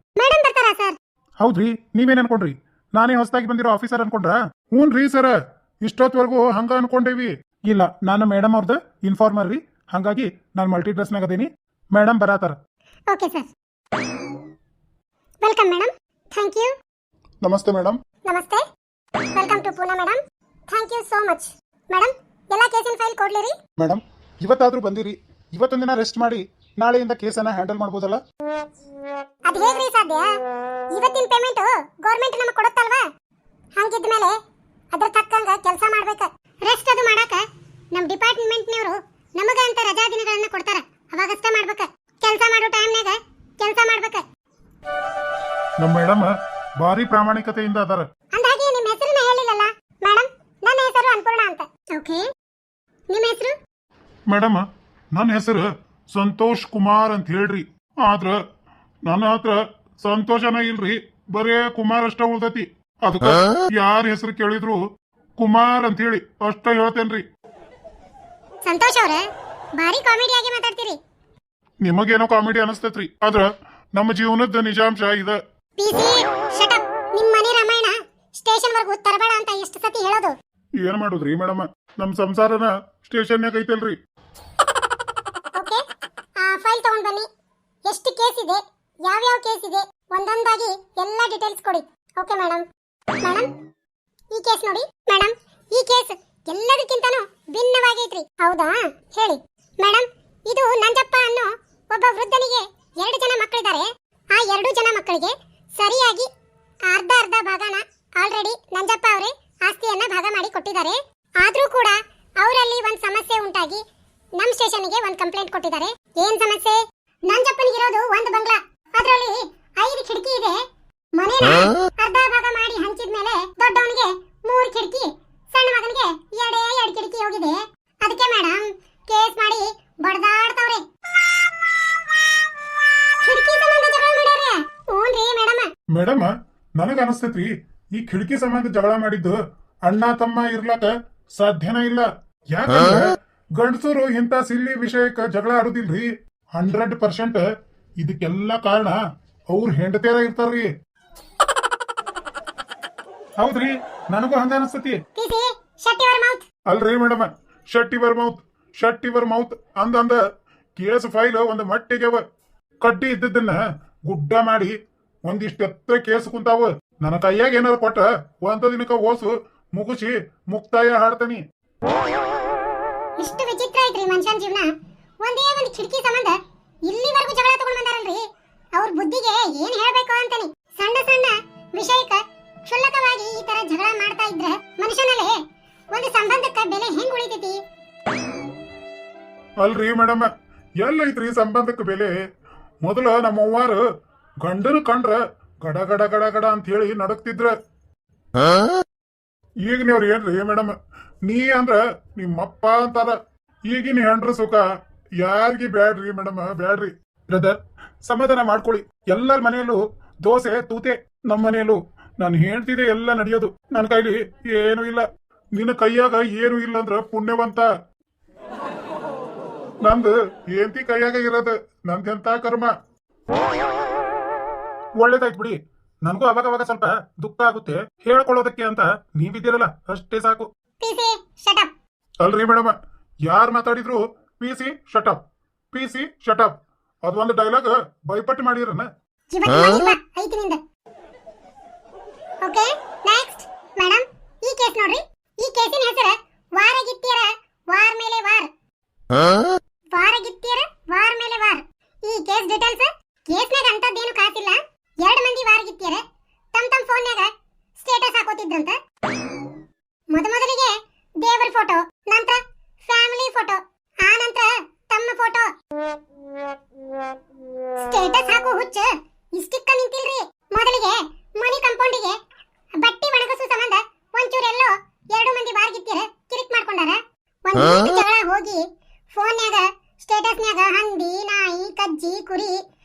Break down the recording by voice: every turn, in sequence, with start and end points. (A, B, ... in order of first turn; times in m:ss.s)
0:00.2-0:01.0 A
0:01.4-0:12.6 B
0:13.1-0:13.5 A
0:15.4-0:16.7 A
0:17.4-0:18.0 B
0:18.3-0:18.6 A
0:19.3-0:23.5 A
0:23.8-0:28.2 B
0:29.5-0:30.3 A
0:30.9-0:33.1 A
0:33.8-0:34.3 A
0:34.9-0:44.2 A
0:45.8-0:48.0 B
0:48.3-0:52.2 A
0:53.1-0:53.6 A
0:54.3-0:58.4 B
0:59.0-1:04.8 B
1:05.4-1:07.2 B
1:08.6-1:09.2 A
1:09.8-1:11.0 A
1:11.8-1:15.4 B
1:15.8-1:20.3 A
1:20.8-1:24.0 B
1:25.5-1:25.8 A
1:26.4-1:27.2 A
1:27.8-1:32.6 A
1:33.2-1:33.5 A
1:34.3-1:46.3 A
1:46.8-1:53.8 A
1:54.4-2:00.6 A
2:01.2-2:10.8 A
2:13.2-2:15.7 A
2:15.9-2:27.4 B
2:28.0-2:29.0 B
2:29.5-2:30.7 B
2:33.4-2:35.0 B
2:35.2-2:36.4 A
2:36.7-2:40.2 B
2:40.8-2:42.2 B
2:42.8-2:44.7 B
2:45.2-2:51.4 B
2:53.2-2:54.7 A
2:55.2-2:58.2 A
2:58.7-3:05.4 A
3:05.9-3:07.6 A
3:09.6-3:10.3 B
3:10.8-3:12.2 B
3:12.8-3:13.8 B
3:14.4-3:17.5 B
3:19.6-3:23.2 B
3:23.7-3:24.6 B
3:25.2-3:37.7 B
3:39.8-3:42.7 B
3:45.0-3:50.5 B
3:50.8-3:51.7 A
3:52.2-3:55.2 B
3:55.7-3:58.9 B
3:59.3-4:00.6 A
4:02.4-4:08.5 A
4:09.9-4:18.8 A
4:20.1-4:25.5 A
4:27.8-4:32.2 A
4:32.8-4:42.6 A